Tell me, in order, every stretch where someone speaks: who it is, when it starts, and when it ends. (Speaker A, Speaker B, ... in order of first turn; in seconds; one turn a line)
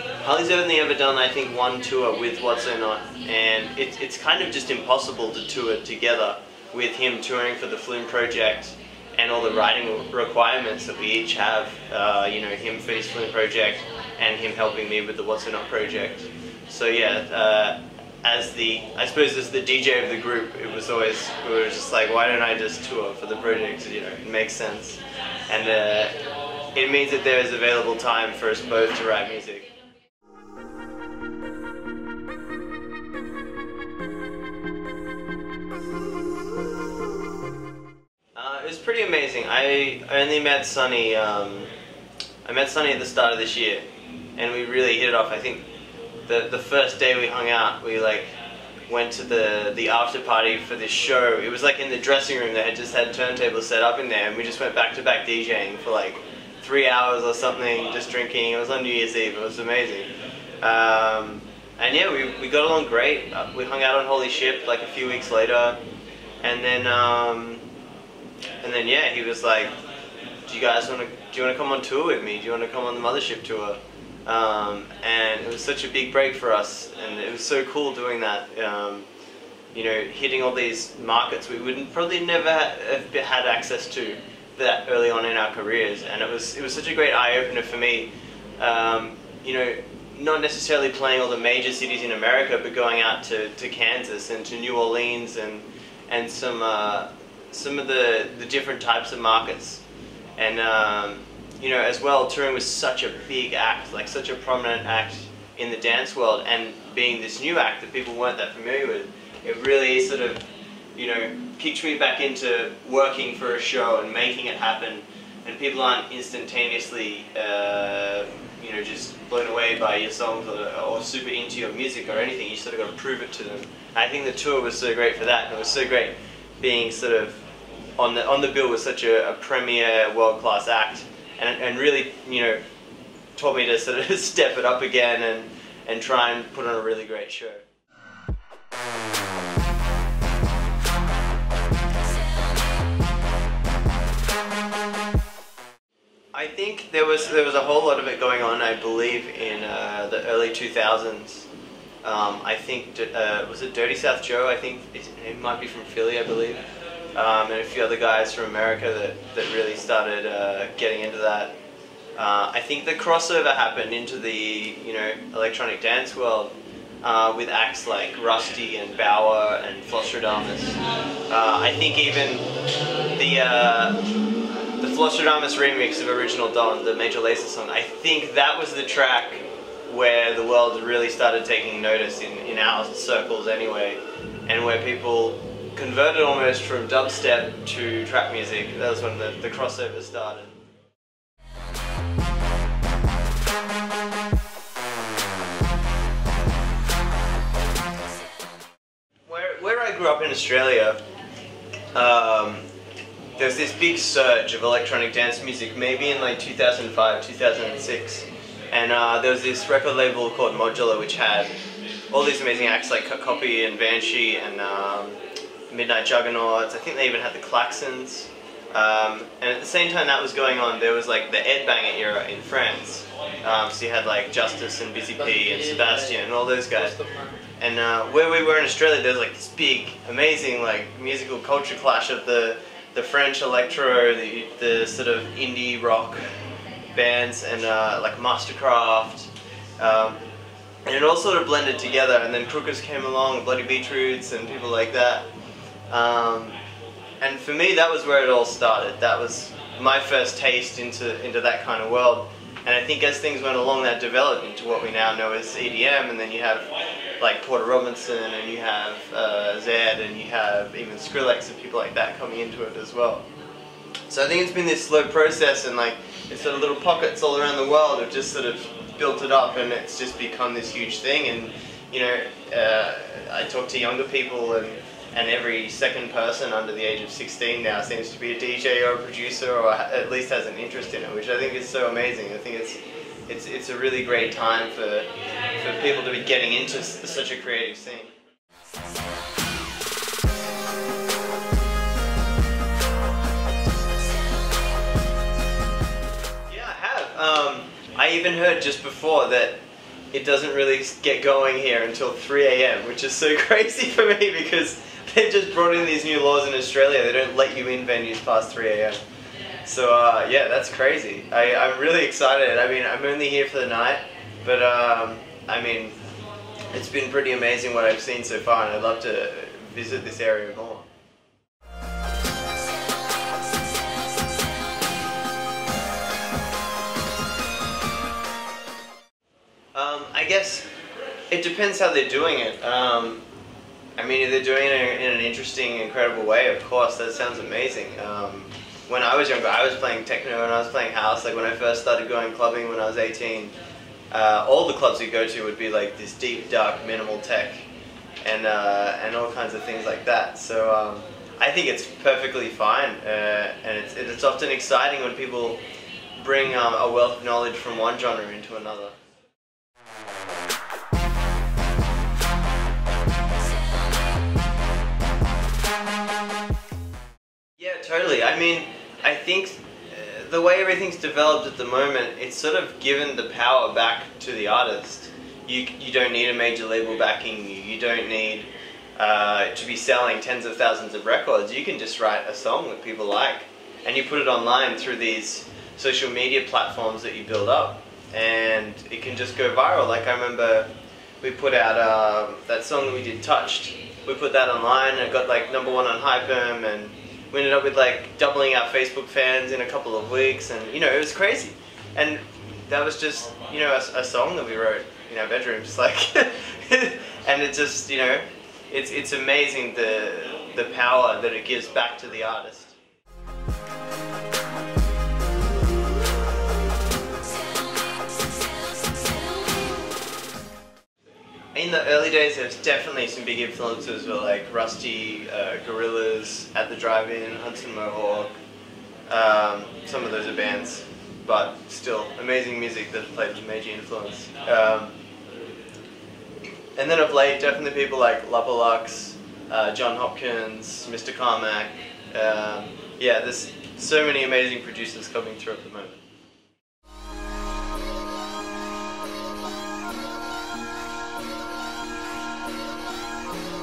Speaker A: 0.2-26.2
Speaker A: 26.8-29.7
Speaker A: 38.4-41.7
Speaker A: 42.5-45.6
Speaker A: 46.3-48.3
Speaker A: 48.9-65.8
Speaker A: 66.4-67.7
Speaker A: 68.6-69.8
Speaker A: 70.5-79.1
Speaker A: 79.7-99.8
Speaker A: 100.4-127.4
Speaker A: 128.0-132.6
Speaker A: 133.4-137.6
Speaker A: 146.3-151.5
Speaker A: 152.0-156.6
Speaker A: 157.2-161.6
Speaker A: 162.2-172.5
Speaker A: 173.2-174.0
Speaker A: 174.8-190.6
Speaker A: 199.3-201.0
Speaker A: 201.9-202.7
Speaker A: 203.4-211.5
Speaker A: 212.1-215.2
Speaker A: 215.7-227.0
Speaker A: 227.6-236.2
Speaker A: 236.9-240.2
Speaker A: 240.9-245.3
Speaker A: 245.9-246.6
Speaker A: 247.2-263.2
Speaker A: 264.1-288.1
Speaker A: 296.5-299.6
Speaker A: 300.1-309.0
Speaker A: 309.6-316.0
Speaker A: 316.7-320.9
Speaker A: 329.7-330.7
Speaker A: 331.3-333.2
Speaker A: 334.0-343.5
Speaker A: 344.1-347.7
Speaker A: 348.2-355.6
Speaker A: 356.2-358.9
Speaker A: 367.6-412.8
Speaker A: 421.5-428.3
Speaker A: 429.1-434.9
Speaker A: 436.8-446.0